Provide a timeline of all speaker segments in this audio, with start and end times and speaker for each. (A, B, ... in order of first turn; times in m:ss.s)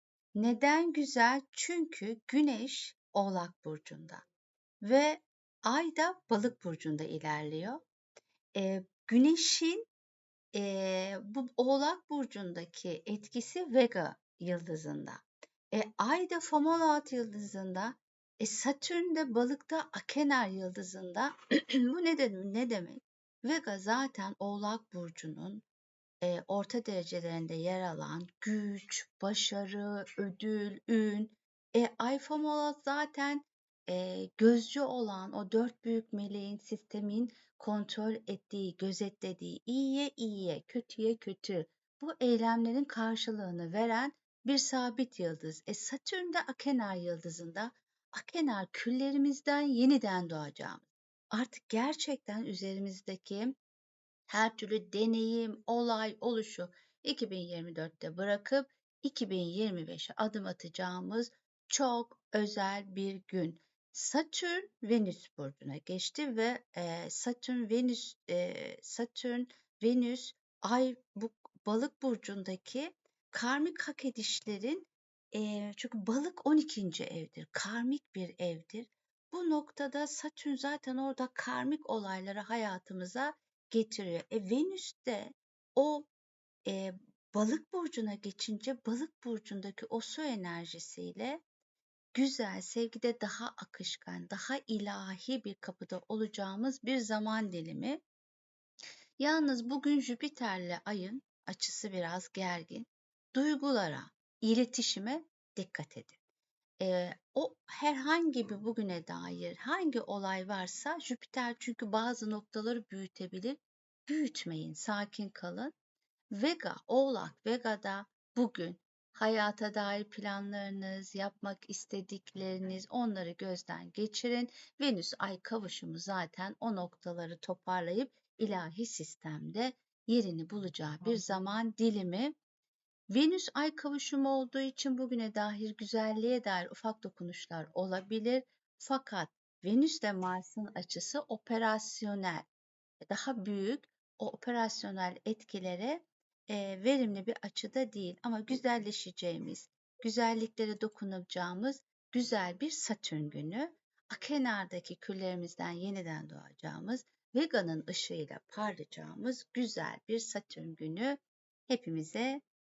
0:00.4-0:04.2 A
0:04.8-0:07.8 A
0:08.5-0:09.9 A
0:10.5-0:25.6 A
0:26.2-0:53.5 A
0:54.3-1:26.1 A
1:26.6-1:31.4 A
1:32.1-1:38.0 A
1:39.2-1:46.2 A
1:46.8-1:55.7 A
1:56.3-2:12.3 A
2:13.1-2:22.5 A
2:23.1-2:42.4 A